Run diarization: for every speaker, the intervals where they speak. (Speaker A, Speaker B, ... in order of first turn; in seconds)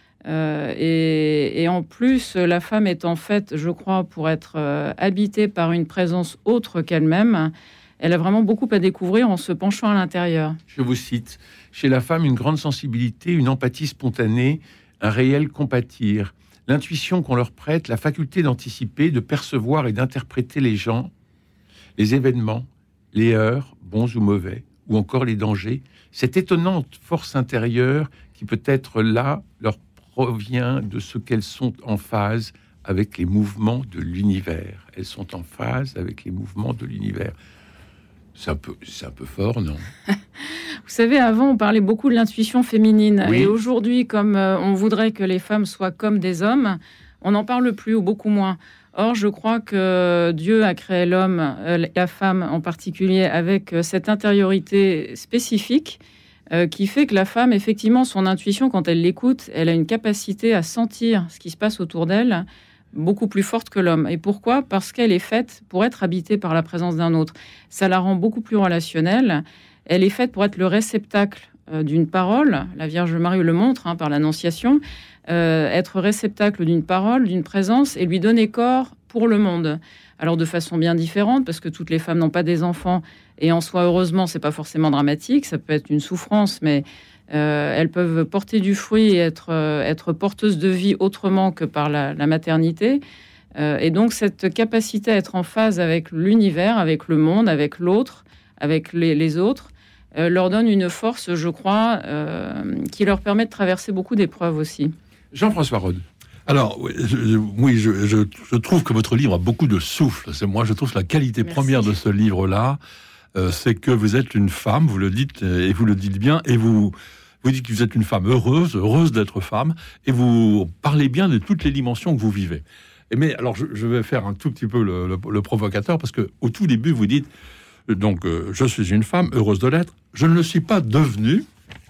Speaker A: 0.3-10.6, 40.4-56.0, 56.5-93.0, 93.6-104.9, 111.5-111.8
Speaker B: 10.7-21.1, 22.0-37.4, 38.4-39.9, 43.2-43.5, 105.3-106.0
Speaker C: 106.5-112.8, 113.3-127.3, 127.9-131.5